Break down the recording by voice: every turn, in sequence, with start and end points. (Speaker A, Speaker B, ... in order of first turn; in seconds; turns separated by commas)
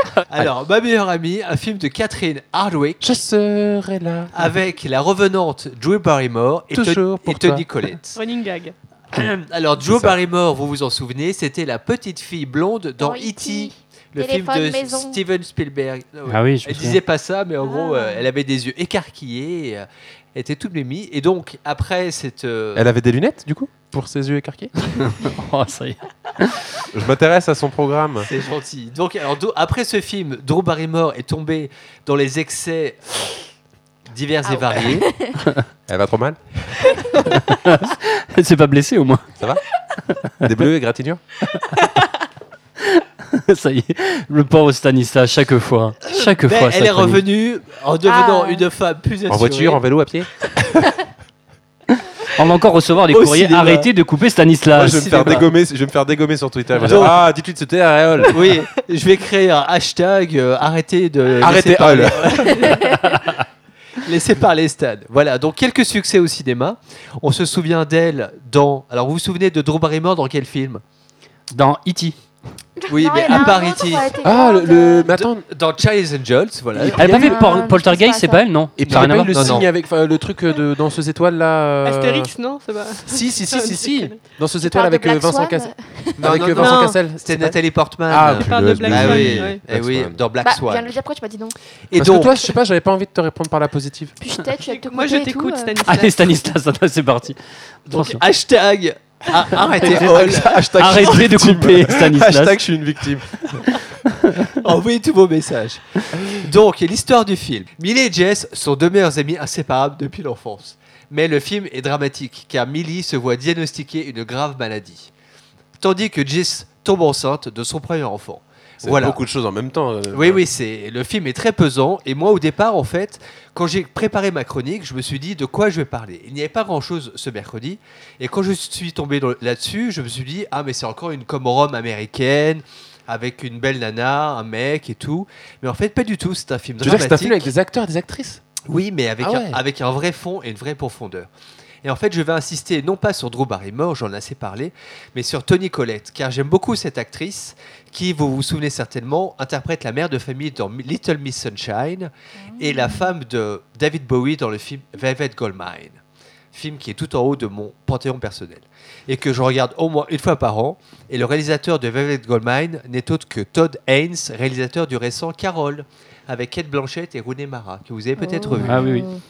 Speaker A: 0.3-3.2, Speaker B: 3.0-4.3, Speaker A: 4.3-8.2, Speaker B: 6.7-7.7, Speaker C: 8.1-8.7, Speaker A: 9.1-22.9, Speaker B: 9.8-10.2, Speaker D: 13.0-15.2, Speaker E: 16.3-17.0, Speaker D: 17.7-18.2, Speaker B: 22.8-24.7, Speaker E: 25.0-26.6, Speaker B: 26.9-28.3, Speaker A: 28.2-33.2, Speaker A: 34.1-35.1, Speaker D: 34.4-35.4, Speaker B: 35.9-36.4, Speaker E: 37.3-39.3, Speaker B: 40.4-41.2, Speaker E: 41.5-42.0, Speaker E: 42.8-47.2, Speaker A: 46.0-49.8, Speaker D: 48.0-48.6, Speaker B: 49.3-50.3, Speaker E: 52.3-55.1, Speaker A: 53.1-53.9, Speaker B: 54.7-58.5, Speaker A: 54.8-55.5, Speaker A: 56.8-57.2, Speaker A: 58.3-63.2, Speaker B: 61.4-62.5, Speaker A: 64.0-70.8, Speaker E: 71.5-72.2, Speaker A: 72.9-74.2, Speaker D: 72.9-75.1, Speaker B: 74.2-75.5, Speaker A: 75.1-77.4, Speaker B: 76.8-77.5, Speaker E: 76.9-79.6, Speaker D: 77.0-78.5, Speaker B: 78.8-82.3, Speaker A: 78.8-79.7, Speaker C: 81.8-84.2, Speaker B: 83.0-90.2, Speaker D: 84.6-86.3, Speaker A: 86.2-90.9, Speaker C: 86.5-87.0, Speaker C: 88.4-89.6, Speaker D: 90.4-91.6, Speaker A: 91.9-92.5, Speaker B: 92.0-94.1, Speaker D: 94.2-95.8, Speaker C: 94.7-96.2, Speaker E: 95.9-97.4, Speaker A: 97.9-100.7, Speaker E: 97.9-98.2, Speaker E: 99.8-102.6, Speaker B: 99.9-103.7, Speaker A: 104.5-115.1, Speaker A: 115.8-119.2, Speaker B: 118.8-120.4, Speaker A: 120.1-137.5, Speaker B: 136.8-138.5, Speaker A: 138.6-141.3, Speaker B: 139.2-139.6, Speaker A: 141.8-156.0, Speaker D: 152.6-153.1, Speaker A: 156.5-168.9, Speaker D: 168.2-169.0, Speaker E: 168.6-169.1